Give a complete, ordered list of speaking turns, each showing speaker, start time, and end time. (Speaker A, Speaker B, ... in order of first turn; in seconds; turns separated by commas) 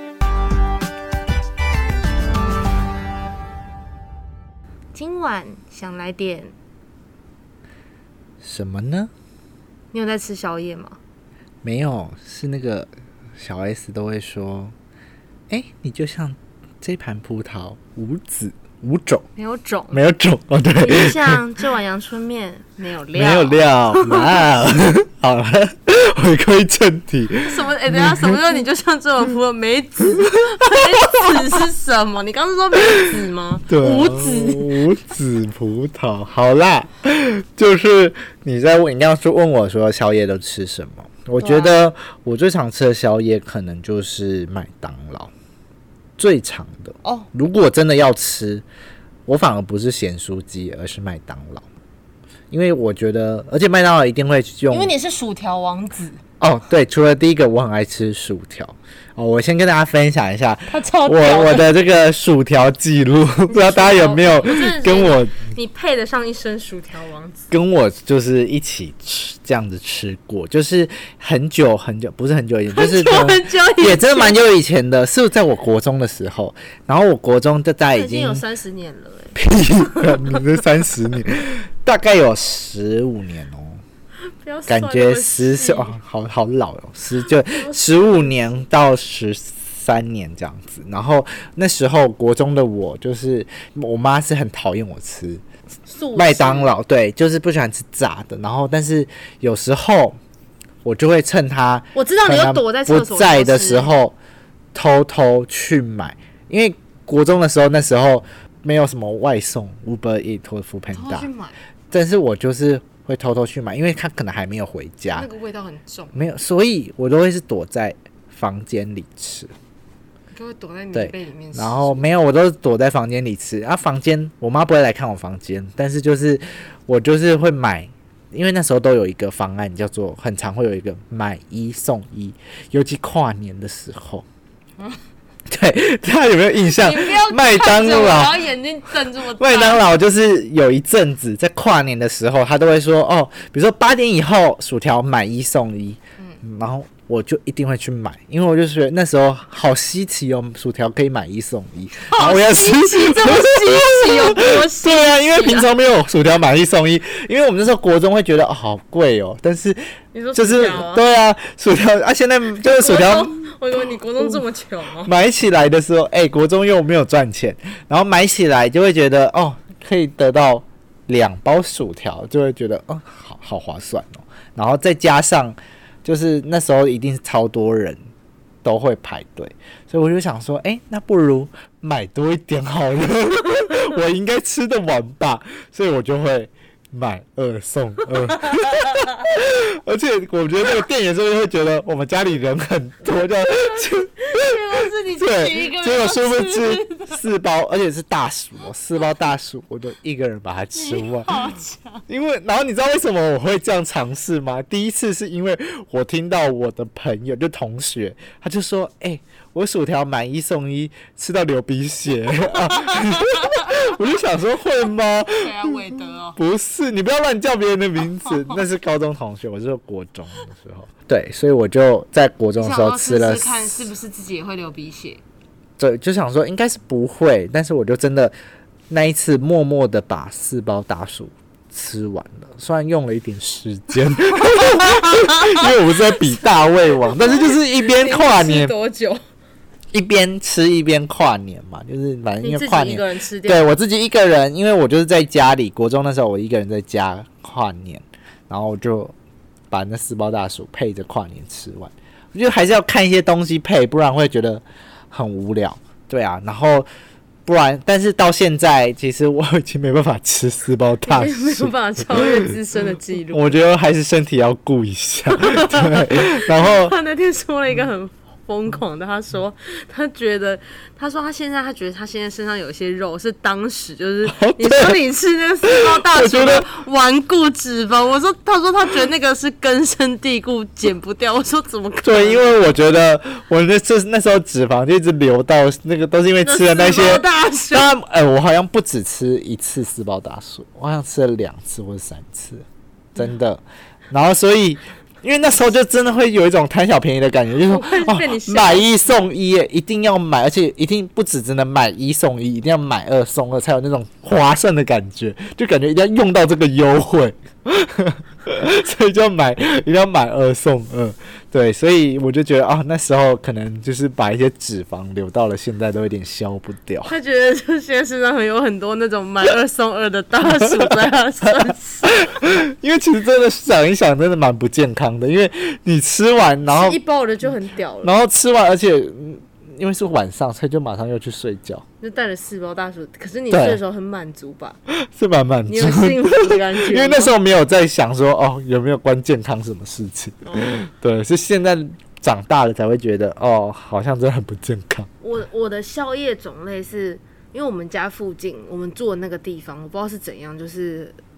Speaker A: 4.9-6.5, Speaker B: 8.4-9.1, Speaker A: 9.9-11.0, Speaker B: 11.6-14.7, Speaker B: 15.5-19.3, Speaker A: 19.4-20.0, Speaker B: 19.9-21.5, Speaker A: 20.8-24.5, Speaker B: 23.1-28.4, Speaker A: 27.4-34.8, Speaker B: 33.7-45.3, Speaker A: 41.4-41.8, Speaker B: 46.2-48.6, Speaker A: 47.0-47.3, Speaker B: 49.3-51.6, Speaker B: 52.5-54.9, Speaker A: 54.7-56.2, Speaker B: 56.4-65.5, Speaker A: 60.7-61.7, Speaker A: 63.5-67.5, Speaker B: 67.5-78.4, Speaker A: 72.7-74.4, Speaker A: 77.8-80.4, Speaker B: 79.3-83.8, Speaker A: 84.3-86.0, Speaker B: 84.7-95.4, Speaker A: 87.2-88.6, Speaker A: 95.8-96.7, Speaker B: 96.1-100.2, Speaker B: 100.8-104.2, Speaker A: 101.9-103.9, Speaker B: 104.7-111.3, Speaker A: 110.9-111.6, Speaker B: 111.9-115.3, Speaker A: 115.1-116.2, Speaker B: 116.1-119.5, Speaker A: 120.3-122.1, Speaker B: 120.9-134.2, Speaker B: 135.5-138.4, Speaker A: 136.8-139.8, Speaker B: 139.4-159.8, Speaker A: 152.0-155.7, Speaker A: 160.1-161.0, Speaker B: 160.3-163.3, Speaker A: 162.6-165.1, Speaker B: 165.0-178.1, Speaker B: 178.6-194.6, Speaker A: 193.7-197.2, Speaker B: 195.2-201.4, Speaker A: 200.7-202.0, Speaker B: 202.1-223.9, Speaker A: 212.7-213.8, Speaker A: 215.3-216.3, Speaker A: 218.1-218.6, Speaker A: 222.6-225.2, Speaker B: 225.8-228.3, Speaker B: 228.9-238.7, Speaker A: 234.3-239.2, Speaker B: 239.9-249.1, Speaker A: 242.4-243.7, Speaker B: 249.7-256.9, Speaker B: 257.4-262.5, Speaker A: 261.0-263.6, Speaker B: 263.3-266.9, Speaker A: 265.3-282.6, Speaker B: 274.3-275.0, Speaker B: 275.6-276.7, Speaker B: 282.0-317.1, Speaker A: 286.4-287.9, Speaker A: 297.6-299.3, Speaker A: 317.1-322.1, Speaker B: 322.0-327.0, Speaker A: 326.6-328.1, Speaker B: 328.0-331.8, Speaker A: 332.0-334.8, Speaker B: 333.5-333.8, Speaker B: 334.9-345.1, Speaker A: 335.6-337.4, Speaker A: 340.4-340.9, Speaker A: 345.2-351.2